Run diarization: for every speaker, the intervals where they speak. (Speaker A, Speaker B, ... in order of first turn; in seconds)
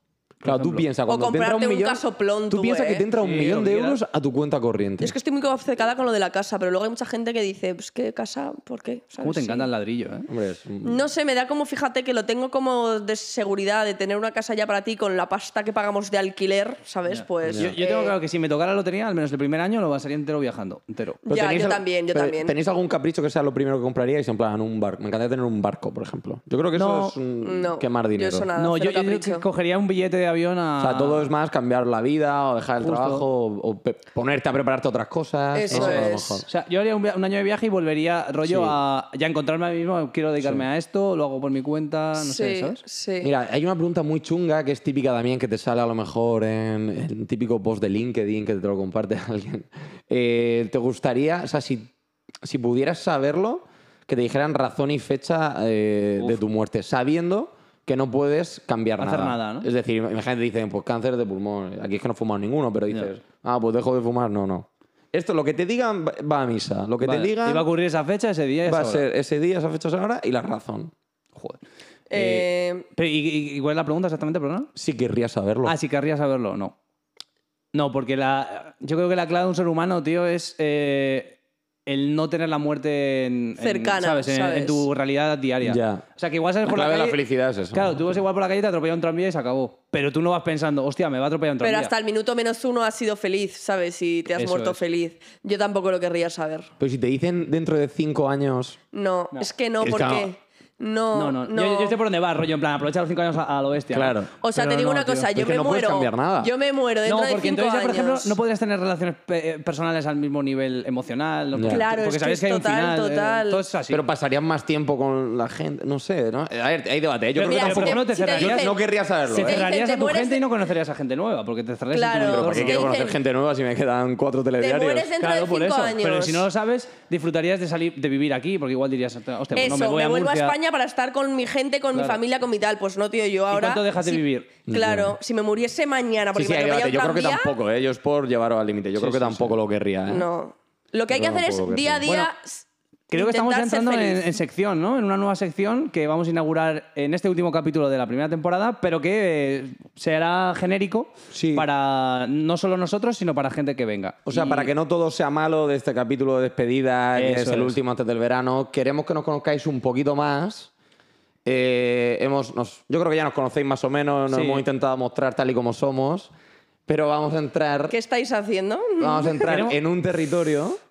Speaker A: 0.4-0.9, 3.1-4.0, 9.2-10.3, 17.1-21.2, 26.8-27.1, 28.6-31.3, 32.8-33.2, 35.7-42.8, 59.0-59.7, 67.0-69.0, 72.1-74.7, 75.7-76.8, 77.7-87.2, 87.7-91.9, 94.4-94.8, 101.1-105.2, 107.0-114.0, 117.4-118.7, 119.3-122.9, 125.2-130.6, 133.5-134.5, 139.0-139.6, 142.1-142.3, 143.1-154.7, 157.2-157.8, 164.3-164.6, 169.5-169.8
Speaker B: 0.4-5.2, 10.3-11.0, 17.4-17.8, 21.3-28.5, 30.8-36.5, 38.5-38.8, 43.2-51.9, 52.4-67.7, 68.7-70.9, 74.8-75.8, 85.6-86.0, 86.7-88.1, 96.8-98.8, 99.8-100.3, 103.9-106.5, 111.5-111.8, 113.9-119.6, 122.2-125.1, 134.7-135.2, 136.3-140.3, 141.1-142.1, 151.3-151.7, 154.3-160.7, 161.4-166.3, 166.9-167.9, 169.0-170.8
Speaker C: 1.1-3.1, 5.0-9.7, 10.8-18.1, 21.2-22.5, 27.4-29.4, 35.5-36.5, 42.2-43.3, 72.1-72.9, 83.6-84.9, 91.6-96.7, 98.9-102.0, 104.4-108.4, 111.7-113.7, 117.4-118.8, 119.4-120.4, 121.9-123.2, 124.6-126.5, 129.5-137.5, 140.1-144.3, 167.9-169.6